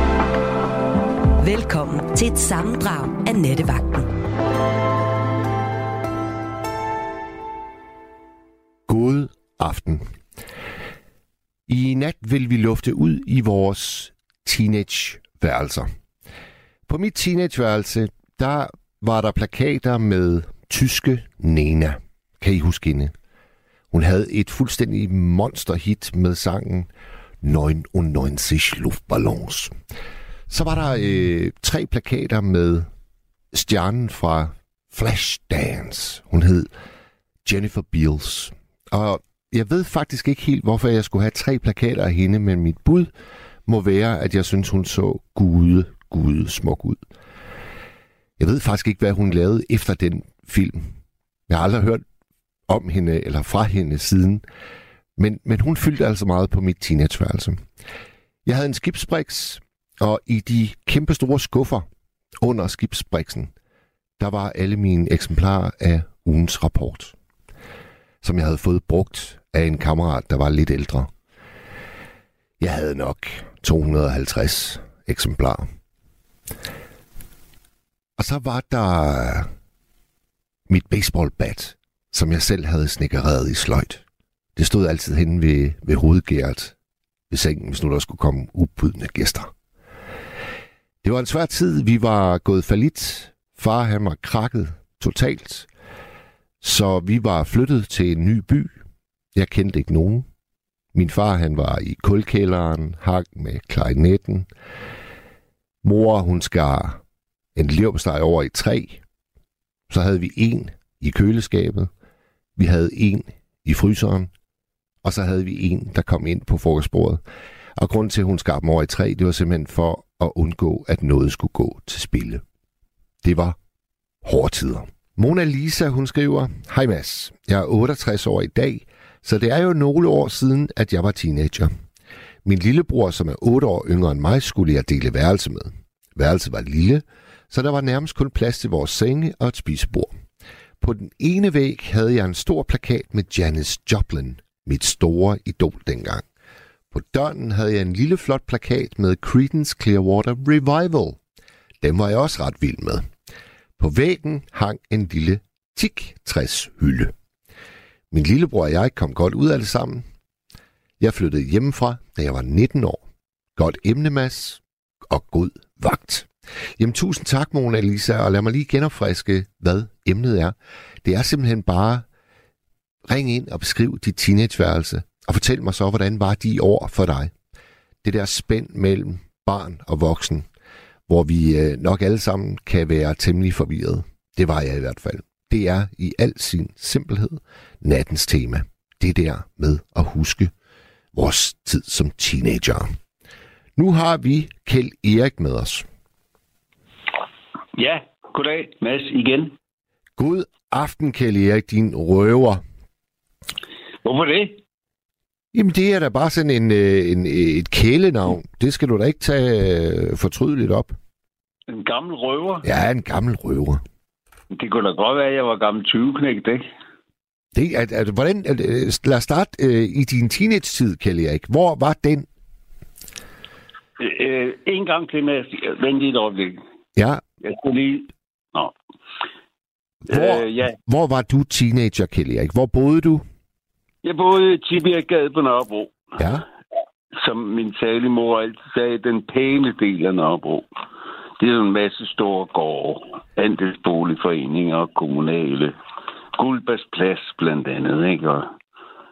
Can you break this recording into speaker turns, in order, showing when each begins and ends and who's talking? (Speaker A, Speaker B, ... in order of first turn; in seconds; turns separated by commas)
Speaker A: 1.4-4.1, Speaker B: 8.9-10.1, Speaker B: 11.7-15.9, Speaker B: 16.9-23.1, Speaker B: 23.9-26.9, Speaker B: 27.4-29.8, Speaker B: 30.5-32.9, Speaker B: 33.5-36.7, Speaker B: 37.5-43.1, Speaker B: 43.7-47.0, Speaker B: 48.4-50.9, Speaker B: 51.5-52.0, Speaker B: 52.7-54.4, Speaker B: 55.2-57.6, Speaker B: 58.5-61.9, Speaker B: 62.4-63.5, Speaker B: 64.2-67.1, Speaker B: 68.2-71.1, Speaker B: 72.6-75.7, Speaker B: 78.2-79.5, Speaker B: 80.7-84.0, Speaker B: 84.6-86.8, Speaker B: 87.3-89.5, Speaker B: 91.0-95.7, Speaker B: 96.6-98.8, Speaker B: 99.3-100.3, Speaker B: 100.9-104.5, Speaker B: 105.8-107.0, Speaker B: 107.5-109.0, Speaker B: 109.9-111.9, Speaker B: 112.6-114.3, Speaker B: 115.0-117.2, Speaker B: 117.8-122.4, Speaker B: 123.2-123.6, Speaker B: 124.2-131.7, Speaker B: 132.4-140.1, Speaker B: 140.8-146.3, Speaker B: 146.9-151.2, Speaker B: 151.8-153.1, Speaker B: 153.8-157.1, Speaker B: 158.1-160.1, Speaker B: 161.0-163.0, Speaker B: 163.6-172.1, Speaker B: 173.1-177.3, Speaker B: 178.0-180.5, Speaker B: 181.1-190.5, Speaker B: 191.1-192.9, Speaker B: 193.8-195.9, Speaker C: 197.8-199.6, Speaker B: 200.2-202.6, Speaker C: 204.1-204.6, Speaker B: 205.5-210.9, Speaker C: 211.7-212.7, Speaker B: 212.6-213.8, Speaker C: 214.5-216.6, Speaker B: 217.5-222.3, Speaker C: 224.0-226.6, Speaker B: 227.0-227.2, Speaker C: 227.4-228.7, Speaker B: 230.1-233.2, Speaker C: 230.1-230.8, Speaker C: 234.0-236.1, Speaker B: 236.2-236.5, Speaker C: 237.1-240.7, Speaker C: 241.4-245.8, Speaker C: 246.4-248.5